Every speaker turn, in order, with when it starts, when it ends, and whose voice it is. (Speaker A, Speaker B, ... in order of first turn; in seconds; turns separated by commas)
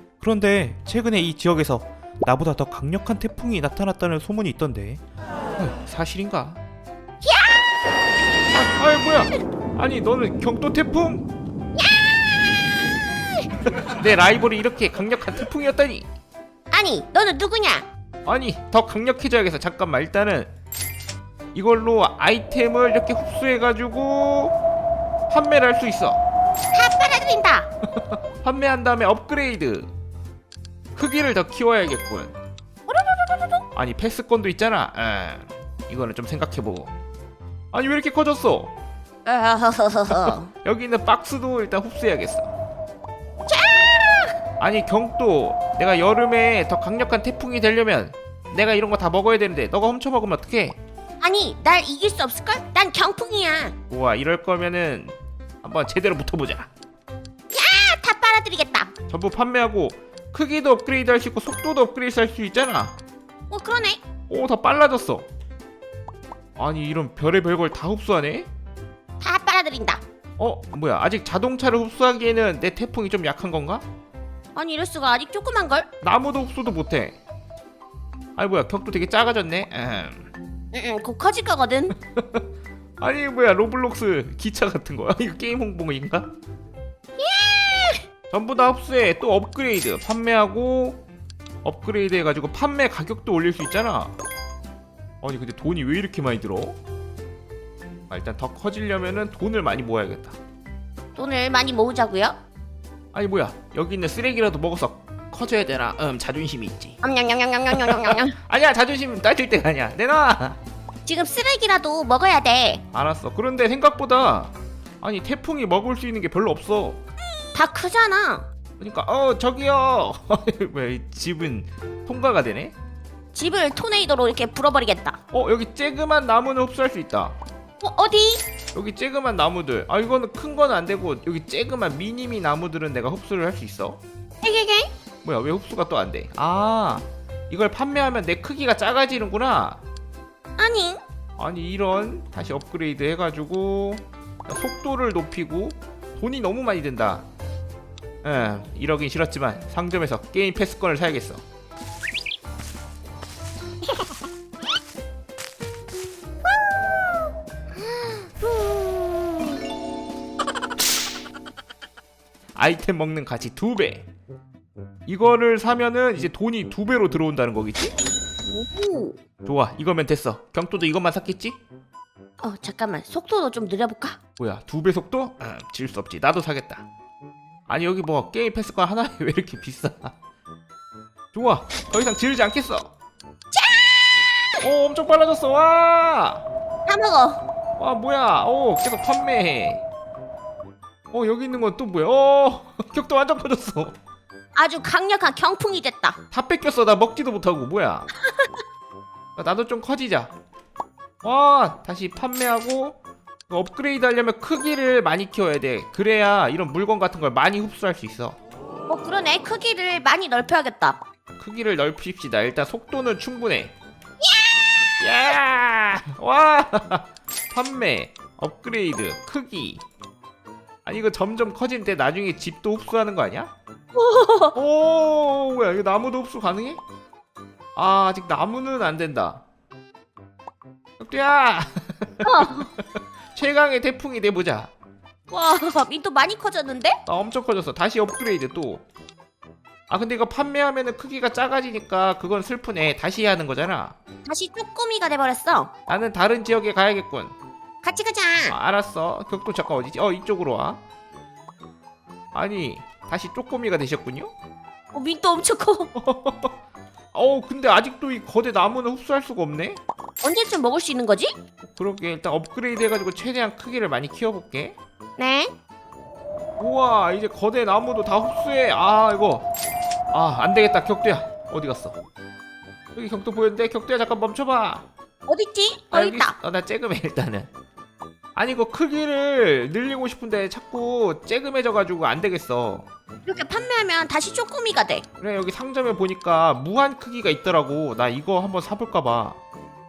Speaker A: 0.2-5.0, Speaker A: 5.6-6.6, Speaker B: 7.2-7.6, Speaker A: 8.5-11.2, Speaker B: 11.7-13.3, Speaker A: 13.8-16.1, Speaker B: 16.7-17.9, Speaker A: 18.2-20.5, Speaker A: 21.5-24.5, Speaker A: 25.3-26.2, Speaker B: 26.7-27.7, Speaker A: 28.0-29.9, Speaker A: 30.9-32.3, Speaker B: 32.9-33.6, Speaker A: 33.7-36.9, Speaker A: 37.7-38.7, Speaker B: 39.2-40.5, Speaker A: 40.1-42.5, Speaker B: 43.5-44.3, Speaker A: 44.6-50.8, Speaker B: 51.2-53.7, Speaker A: 53.9-56.7, Speaker B: 57.5-58.9, Speaker A: 59.1-63.0, Speaker B: 63.5-64.0, Speaker A: 64.3-65.3, Speaker A: 66.6-68.5, Speaker B: 69.2-70.0, Speaker A: 70.4-73.8, Speaker B: 74.5-75.9, Speaker A: 76.0-77.2, Speaker A: 78.4-80.3, Speaker B: 80.7-81.9, Speaker A: 82.1-82.4, Speaker A: 83.0-86.3, Speaker B: 87.2-88.0, Speaker A: 88.3-91.0, Speaker A: 91.6-94.1, Speaker A: 95.2-96.8, Speaker A: 98.1-100.3, Speaker B: 101.2-102.4, Speaker A: 103.1-107.0, Speaker B: 107.0-108.3, Speaker A: 107.7-110.6, Speaker B: 111.0-112.8, Speaker A: 112.9-117.0, Speaker B: 117.5-118.5, Speaker A: 118.8-122.7, Speaker B: 123.3-125.2, Speaker A: 125.3-127.3, Speaker B: 127.8-128.4, Speaker A: 128.7-134.0, Speaker B: 134.4-134.9, Speaker A: 135.2-139.8, Speaker B: 140.6-141.0, Speaker A: 141.4-147.2, Speaker A: 148.2-151.4, Speaker B: 157.8-159.5, Speaker A: 162.6-164.1, Speaker A: 165.1-167.9, Speaker B: 168.4-169.2, Speaker A: 169.4-171.6, Speaker B: 172.4-174.2, Speaker A: 174.4-176.8, Speaker A: 177.7-180.1, Speaker A: 181.3-182.9, Speaker B: 183.5-184.5, Speaker A: 184.6-186.4, Speaker B: 186.9-187.4, Speaker A: 187.8-189.8, Speaker A: 191.1-193.9, Speaker B: 194.5-196.2, Speaker A: 196.3-198.1, Speaker A: 199.4-200.3, Speaker A: 201.2-203.0, Speaker A: 203.5-208.4, Speaker B: 208.9-211.0, Speaker A: 211.4-213.7, Speaker B: 214.2-214.6, Speaker A: 215.0-219.8, Speaker A: 220.8-223.5, Speaker B: 223.9-224.5, Speaker A: 224.5-226.8, Speaker A: 227.8-229.4, Speaker A: 231.0-232.8, Speaker B: 232.2-232.7, Speaker A: 233.3-234.7, Speaker B: 235.3-237.0, Speaker A: 237.1-238.8, Speaker A: 239.9-243.9, Speaker B: 244.2-245.7, Speaker A: 245.9-247.3, Speaker B: 247.8-248.5, Speaker A: 248.5-250.8, Speaker A: 252.3-254.3, Speaker B: 254.9-255.9, Speaker A: 255.9-256.5, Speaker A: 257.1-259.8, Speaker B: 260.2-261.3, Speaker A: 261.6-264.8, Speaker B: 265.2-265.5, Speaker A: 266.6-269.4, Speaker A: 270.1-272.0, Speaker A: 272.9-274.8, Speaker B: 275.3-276.4, Speaker A: 275.9-277.5, Speaker A: 278.4-282.9, Speaker B: 283.2-285.0, Speaker A: 285.2-289.4